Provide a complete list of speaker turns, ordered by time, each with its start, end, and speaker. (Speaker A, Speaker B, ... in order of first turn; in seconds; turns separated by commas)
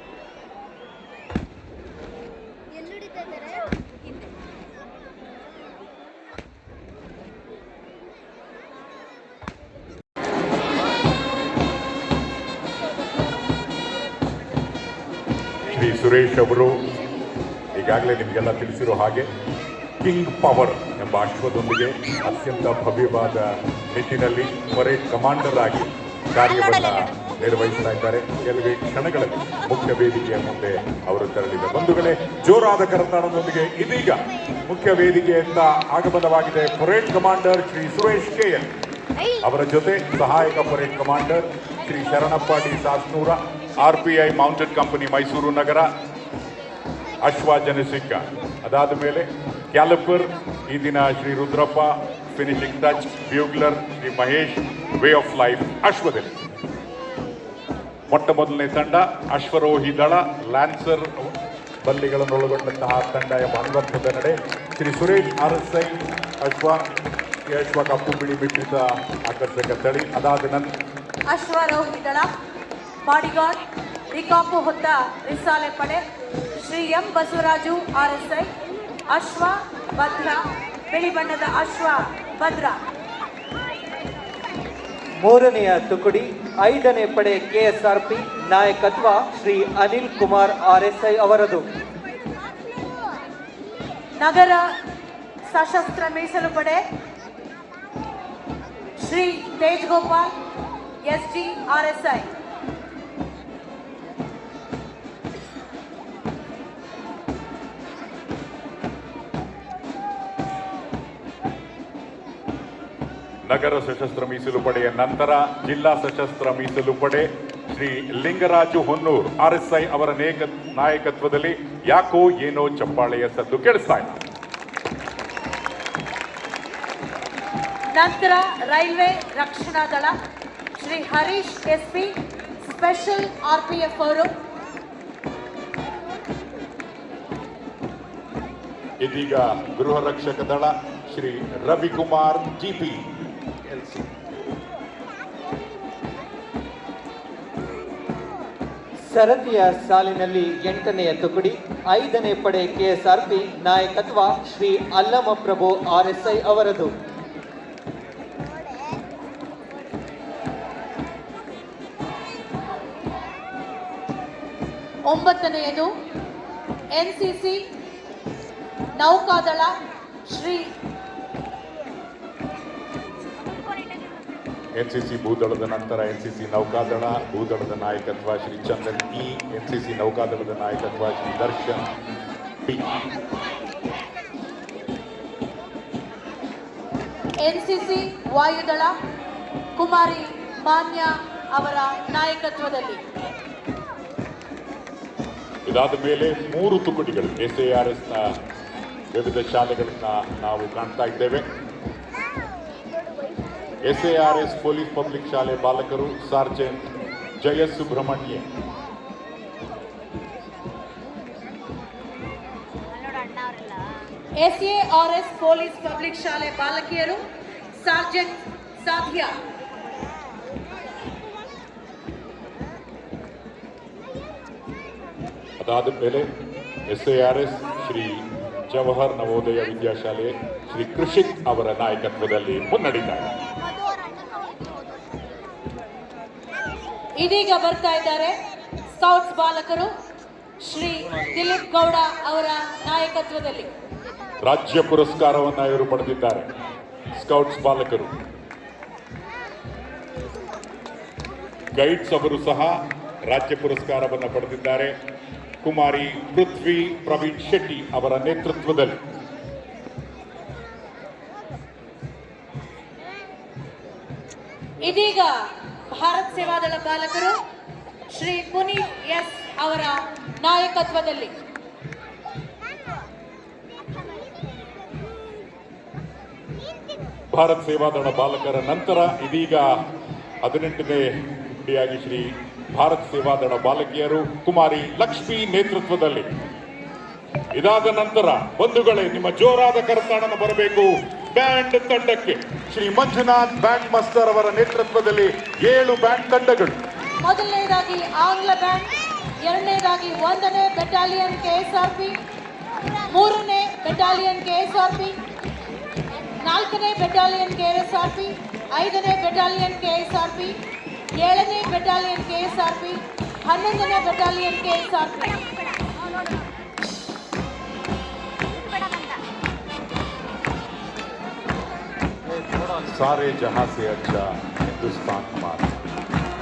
Speaker A: 15.7-16.7, Speaker A: 17.7-19.3, Speaker A: 20.0-38.7, Speaker A: 39.4-45.9, Speaker A: 47.2-56.3, Speaker A: 58.1-61.3, Speaker A: 61.8-66.8, Speaker A: 67.5-70.8, Speaker B: 71.3-72.3, Speaker B: 73.0-76.0, Speaker B: 76.6-78.5, Speaker B: 79.1-82.8, Speaker C: 85.2-91.7, Speaker B: 94.2-94.7, Speaker B: 95.5-96.8, Speaker B: 99.0-100.3, Speaker B: 101.1-102.3, Speaker A: 113.5-124.2, Speaker B: 127.9-130.1, Speaker B: 130.8-134.3, Speaker A: 139.0-143.0, Speaker A: 143.7-144.0, Speaker C: 149.1-156.9, Speaker B: 165.1-165.9, Speaker B: 167.0-167.6, Speaker B: 169.0-169.7, Speaker B: 170.3-170.7, Speaker A: 174.8-181.8, Speaker A: 182.6-183.0, Speaker B: 187.4-188.9, Speaker B: 189.8-193.0, Speaker A: 195.7-198.2, Speaker A: 199.1-201.4, Speaker A: 203.8-206.9, Speaker A: 207.4-208.4, Speaker B: 214.4-217.2, Speaker B: 217.8-219.3, Speaker A: 225.6-226.3, Speaker A: 226.9-233.3, Speaker B: 237.2-238.3, Speaker B: 239.0-239.9, Speaker B: 240.7-243.7, Speaker A: 244.4-246.5, Speaker A: 247.2-248.1, Speaker A: 251.8-252.7, Speaker A: 253.3-254.9, Speaker A: 255.6-259.0, Speaker B: 264.8-265.3, Speaker B: 265.9-267.4, Speaker B: 268.1-271.3, Speaker A: 277.3-279.6, Speaker A: 280.4-286.3, Speaker A: 287.5-296.8, Speaker B: 297.2-298.9, Speaker B: 299.4-302.2, Speaker B: 303.0-305.2, Speaker B: 306.4-310.6, Speaker B: 311.2-315.5, Speaker A: 322.8-325.9